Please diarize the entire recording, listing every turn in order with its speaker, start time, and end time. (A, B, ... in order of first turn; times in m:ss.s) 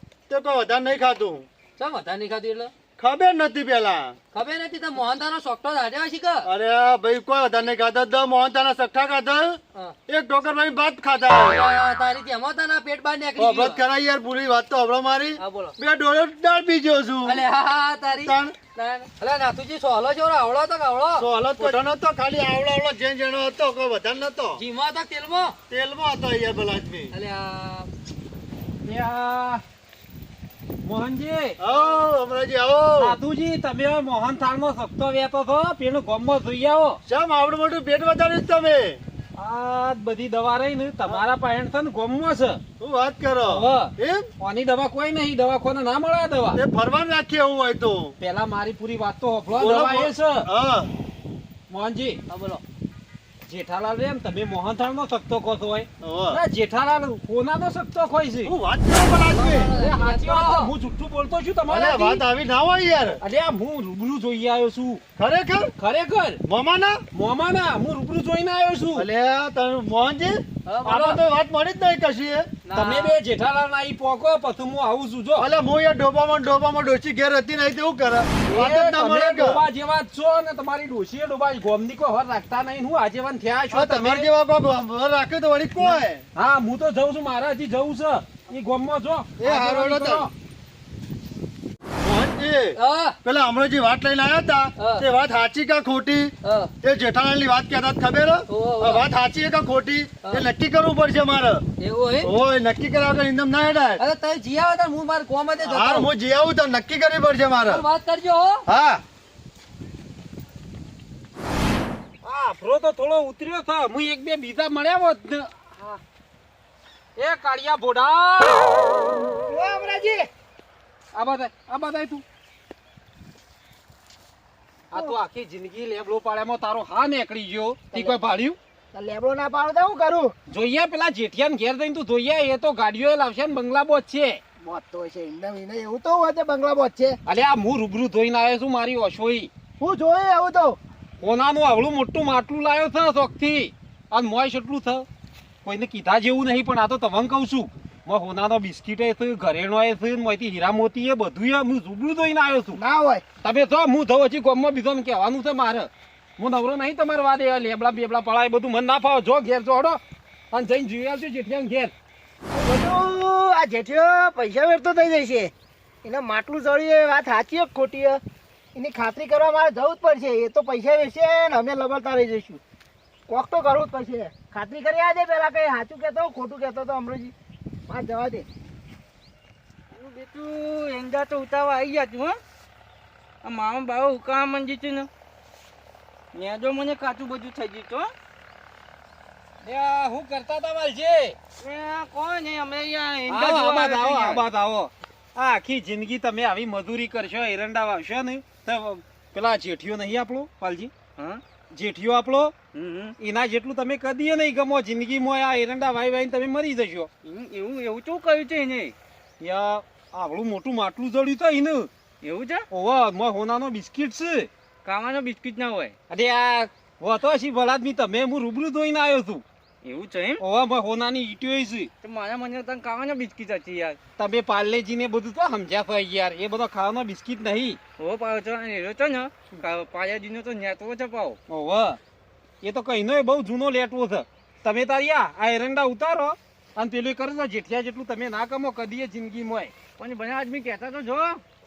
0:00.3-0:01.5 A
0:01.8-0:02.7 B
0:03.0-0:04.2 A
0:04.3-0:06.5 B
0:06.4-0:11.7 A
0:11.5-0:13.8 B
0:13.4-0:17.4 A
0:15.4-0:15.7 B
0:17.2-0:21.8 B
0:18.2-0:18.5 A
0:21.1-0:24.6 A
0:24.6-0:25.5 B
0:25.7-0:27.1 A
0:27.1-0:27.9 B
0:28.8-0:29.6 C
0:30.8-0:31.6 C
0:31.6-0:33.2 A
0:33.0-0:37.0 C
0:37.1-0:39.0 A
0:39.4-0:42.6 C
0:42.8-0:44.3 A
0:43.4-0:46.6 C
0:46.5-0:48.1 A
0:48.2-0:50.5 C
0:49.5-0:50.9 A
0:51.7-0:52.2 C
0:52.3-0:52.6 B
0:53.4-0:58.5 C
0:56.0-0:56.4 A
0:58.4-0:59.7 A
0:59.2-1:00.7 B
0:59.7-1:02.2 C
1:01.7-1:03.2 A
1:03.2-1:05.0 C
1:05.2-1:05.7 A
1:05.8-1:06.4 C
1:06.4-1:07.0 A
1:07.1-1:09.1 C
1:09.0-1:12.5 A
1:10.7-1:11.1 B
1:12.6-1:13.2 B
1:12.7-1:15.5 C
1:15.4-1:19.6 A
1:18.5-1:24.3 C
1:23.7-1:26.2 A
1:26.3-1:30.3 C
1:29.4-1:30.3 A
1:32.0-1:41.6 A
1:32.8-1:33.1 B
1:34.8-1:35.0 B
1:36.4-1:36.7 B
1:38.5-1:39.0 B
1:41.8-1:42.3 B
1:42.2-1:44.0 A
1:44.0-1:46.1 B
1:45.6-1:47.8 A
1:47.6-1:48.6 B
1:48.7-1:49.0 A
1:52.2-1:56.0 C
1:57.2-1:59.1 C
1:59.4-2:00.3 D
2:01.1-2:02.2 C
2:04.9-2:08.6 C
2:08.9-2:10.3 D
2:10.5-2:14.4 C
2:14.6-2:17.2 D
2:17.2-2:19.5 C
2:19.8-2:20.8 D
2:21.2-2:25.0 C
2:25.6-2:32.8 C
2:32.8-2:33.2 D
2:33.4-2:40.0 C
2:40.5-2:41.9 C
2:42.5-2:45.5 D
2:46.0-2:48.2 D
2:48.7-2:52.6 D
2:53.3-2:57.3 D
2:57.9-2:58.5 D
2:59.9-3:02.4 B
3:03.4-3:05.1 B
3:06.3-3:08.1 B
3:09.6-3:11.4 C
3:11.6-3:14.4 B
3:13.3-3:20.9 C
3:21.2-3:21.4 B
3:21.7-3:22.5 C
3:22.7-3:23.2 B
3:23.2-3:27.1 C
3:27.2-3:28.9 B
3:29.4-3:31.9 C
3:32.2-3:32.6 B
3:32.7-3:34.5 C
3:34.8-3:35.9 B
3:36.1-3:39.4 C
3:39.8-3:40.4 B
3:40.4-3:41.9 C
3:42.0-3:44.0 B
3:44.2-3:47.8 C
3:48.0-3:51.4 B
3:51.5-3:52.0 C
3:52.6-3:59.7 C
4:00.0-4:01.4 B